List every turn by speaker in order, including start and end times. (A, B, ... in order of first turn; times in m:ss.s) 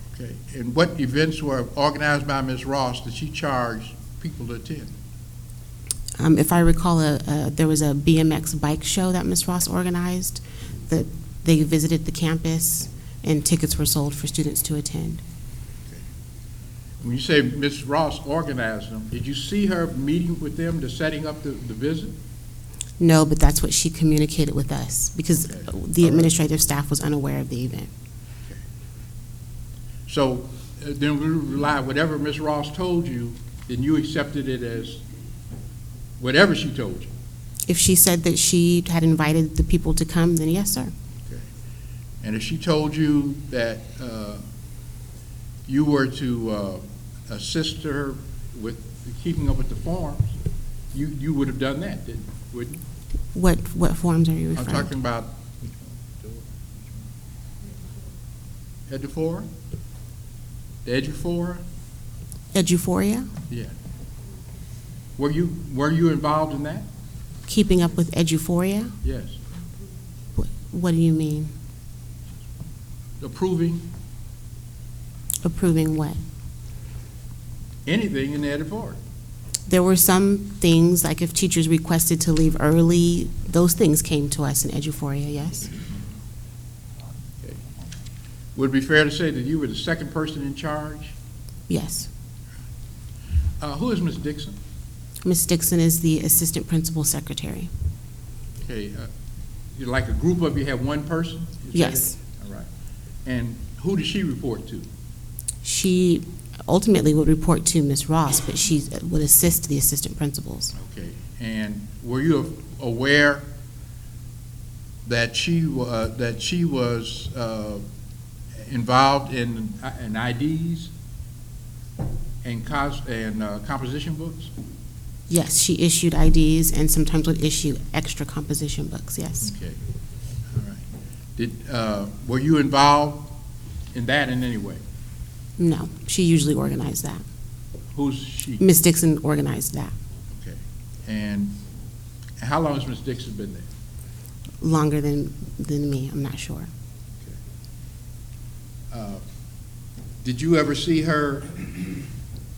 0:00.1-0:04.9 A
0:06.2-0:15.2 B
0:17.0-0:22.1 A
0:23.0-0:27.9 B
0:25.4-0:26.3 A
0:30.1-0:35.0 A
0:36.2-0:37.1 A
0:37.7-0:40.9 B
0:42.2-0:44.4 A
0:45.7-0:50.3 A
0:50.9-0:52.8 A
0:53.3-0:54.9 B
0:54.6-0:56.6 A
0:58.9-0:59.5 A
1:00.8-1:01.6 A
1:02.5-1:03.3 B
1:05.2-1:06.9 A
1:07.5-1:08.9 B
1:09.0-1:09.4 A
1:10.4-1:11.5 B
1:13.2-1:13.9 A
1:15.4-1:16.2 B
1:17.9-1:19.0 A
1:19.7-1:25.7 B
1:28.6-1:31.1 A
1:31.7-1:32.1 B
1:33.6-1:34.6 A
1:35.2-1:37.7 B
1:38.6-1:39.1 A
1:39.8-1:42.7 A
1:41.7-1:42.2 B
1:43.2-1:44.9 A
1:45.6-1:50.7 B
1:50.7-1:53.4 A
1:55.1-1:57.8 A
1:58.7-2:00.9 A
2:02.4-2:04.5 A
2:05.3-2:09.5 B
2:09.4-2:09.8 A
2:10.5-2:10.8 A
2:11.4-2:13.3 A
2:13.9-2:14.8 A
2:15.6-2:17.2 B
2:17.9-2:18.6 A
2:18.6-2:19.9 B
2:20.3-2:21.6 A
2:22.4-2:23.7 A
2:24.6-2:26.7 B
2:28.9-2:29.2 A
2:30.2-2:31.8 A